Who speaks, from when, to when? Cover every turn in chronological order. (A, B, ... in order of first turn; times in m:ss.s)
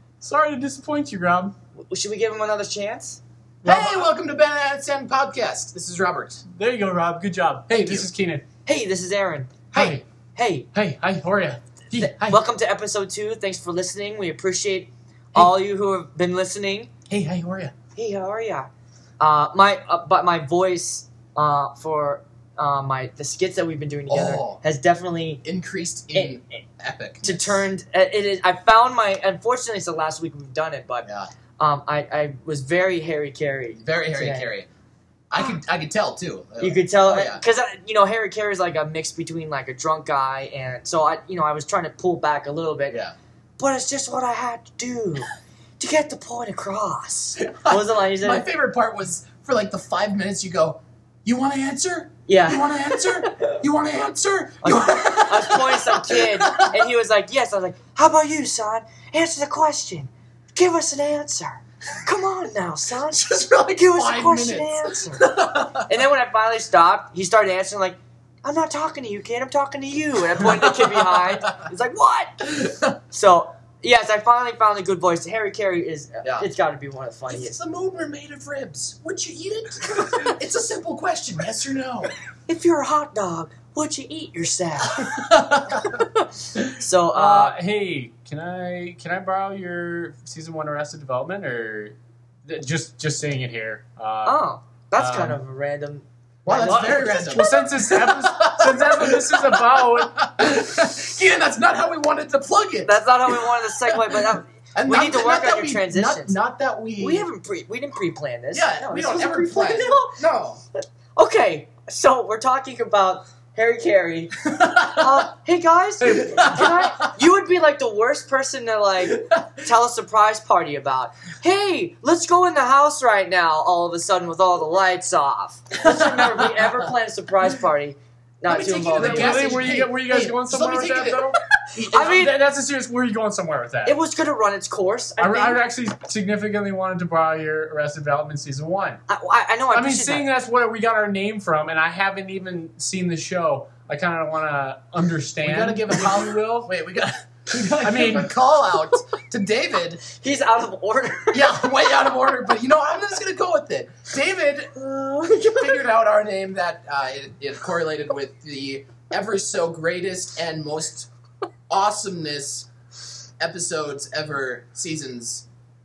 0:00.2-0:01.5 A
0:01.9-0:03.2 B
0:03.6-0:04.1 A
0:03.6-0:06.4 C
0:06.5-0:08.4 A
0:07.7-0:08.1 C
0:08.6-0:09.6 B
0:09.7-0:10.0 C
0:09.7-0:10.0 A
0:10.3-0:10.7 B
0:10.7-0:12.2 A
0:11.9-0:16.9 B
0:17.1-0:17.7 A
0:17.9-0:18.7 B
0:19.2-0:25.4 B
0:24.1-0:24.6 C
0:25.4-0:27.6 C
0:26.1-0:26.6 B
0:27.2-0:31.1 B
0:31.0-0:31.3 C
0:31.6-0:34.5 B
0:33.8-0:34.7 C
0:35.3-0:37.4 C
0:36.6-0:43.0 B
0:43.6-0:48.4 B
0:47.4-0:56.9 C
0:52.3-0:53.6 B
0:54.6-1:12.5 B
1:03.1-1:05.9 C
1:10.4-1:11.6 C
1:12.4-1:13.0 C
1:13.1-1:17.6 B
1:16.2-1:16.5 C
1:17.3-1:22.1 C
1:22.5-1:25.1 B
1:25.0-1:25.9 C
1:25.8-1:27.6 B
1:27.1-1:34.4 A
1:34.2-1:36.0 B
1:35.0-1:35.4 A
1:36.4-1:47.3 C
1:36.4-1:40.2 A
1:42.8-1:46.4 B
1:47.0-1:50.2 B
1:48.5-1:50.6 C
1:51.2-2:09.7 B
1:54.5-1:55.2 C
1:56.0-1:57.1 C
1:59.1-1:59.6 C
2:05.8-2:06.8 C
2:08.4-2:12.3 C
2:09.0-2:14.0 A
2:11.9-2:12.4 B
2:13.8-2:15.6 B
2:15.2-2:19.0 A
2:19.1-2:20.2 B
2:19.7-2:26.6 A
2:25.4-2:30.0 C
2:27.8-2:28.3 A
2:30.1-2:31.6 B
2:31.3-2:41.1 C
2:35.3-2:35.6 B
2:41.7-2:42.7 C
2:43.4-2:45.4 C